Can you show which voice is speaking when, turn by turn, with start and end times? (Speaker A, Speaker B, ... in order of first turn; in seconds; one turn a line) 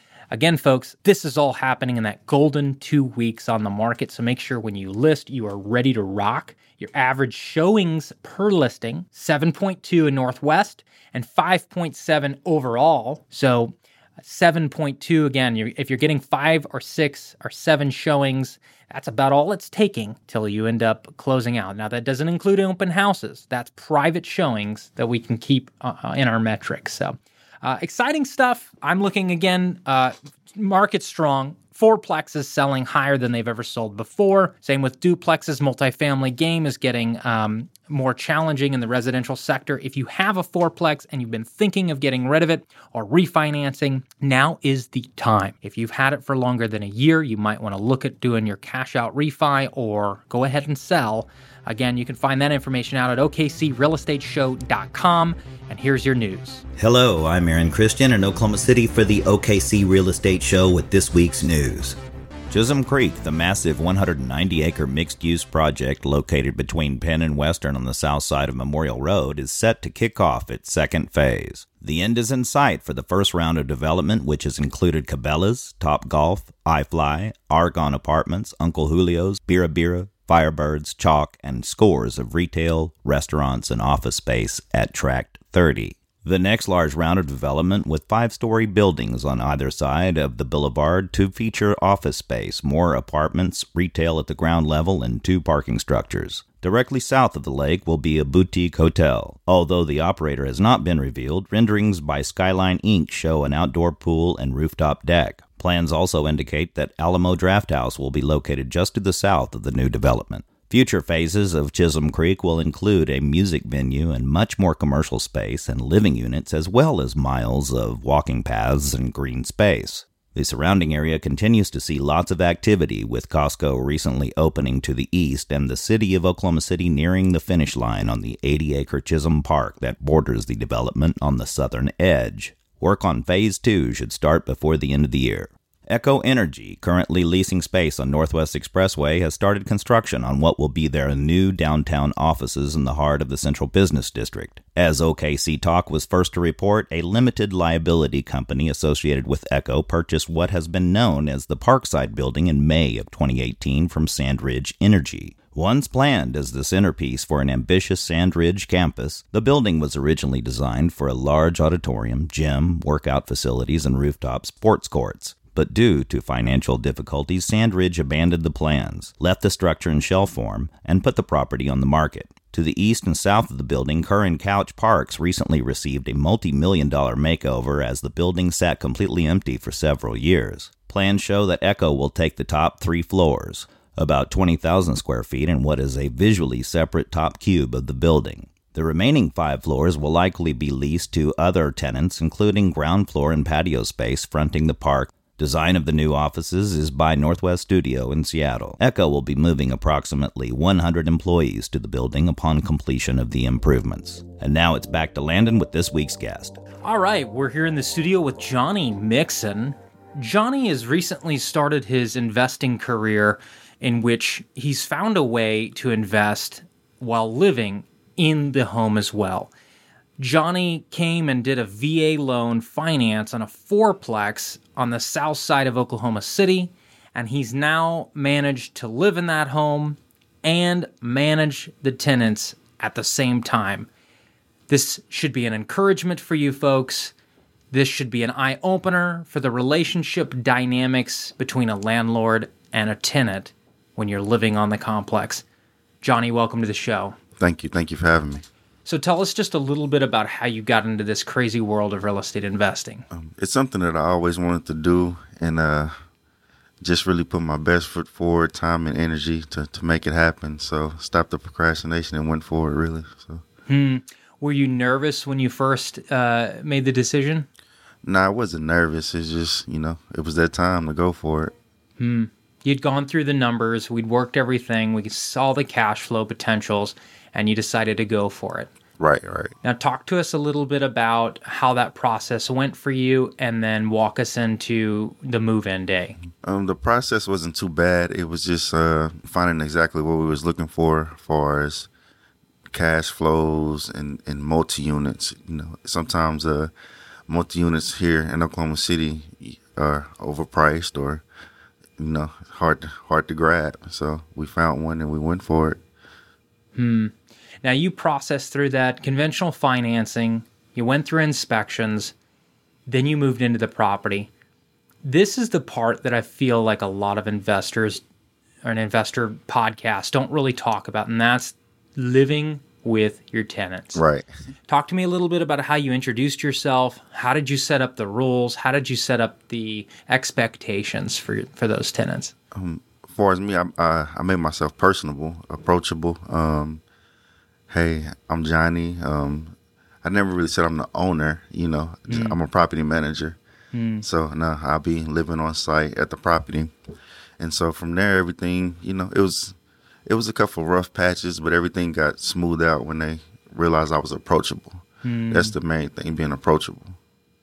Speaker A: 0.3-56.6
Speaker B: 56.8-62.0
Speaker B: 62.5-206.6
Speaker A: 206.8-219.5
Speaker A: 220.2-233.9
Speaker A: 234.7-237.1
Speaker A: 237.7-245.4
Speaker A: 246.0-247.2
Speaker C: 247.4-248.4
Speaker A: 248.9-253.1
Speaker C: 253.1-256.0
Speaker C: 256.8-263.4
Speaker A: 263.7-267.5
Speaker C: 268.0-271.6
Speaker A: 272.0-278.7
Speaker C: 279.0-279.6
Speaker A: 279.6-286.2
Speaker C: 286.4-291.9
Speaker C: 292.7-296.7
Speaker C: 297.3-301.2
Speaker C: 302.0-305.8
Speaker A: 306.8-312.1
Speaker A: 312.9-314.3
Speaker A: 315.0-318.0
Speaker A: 318.6-324.0
Speaker C: 323.9-324.3
Speaker A: 324.7-332.3
Speaker C: 332.5-336.8
Speaker C: 337.7-343.4
Speaker A: 342.1-342.4
Speaker A: 343.7-344.1
Speaker C: 344.0-346.8
Speaker C: 347.4-357.0
Speaker A: 355.0-355.6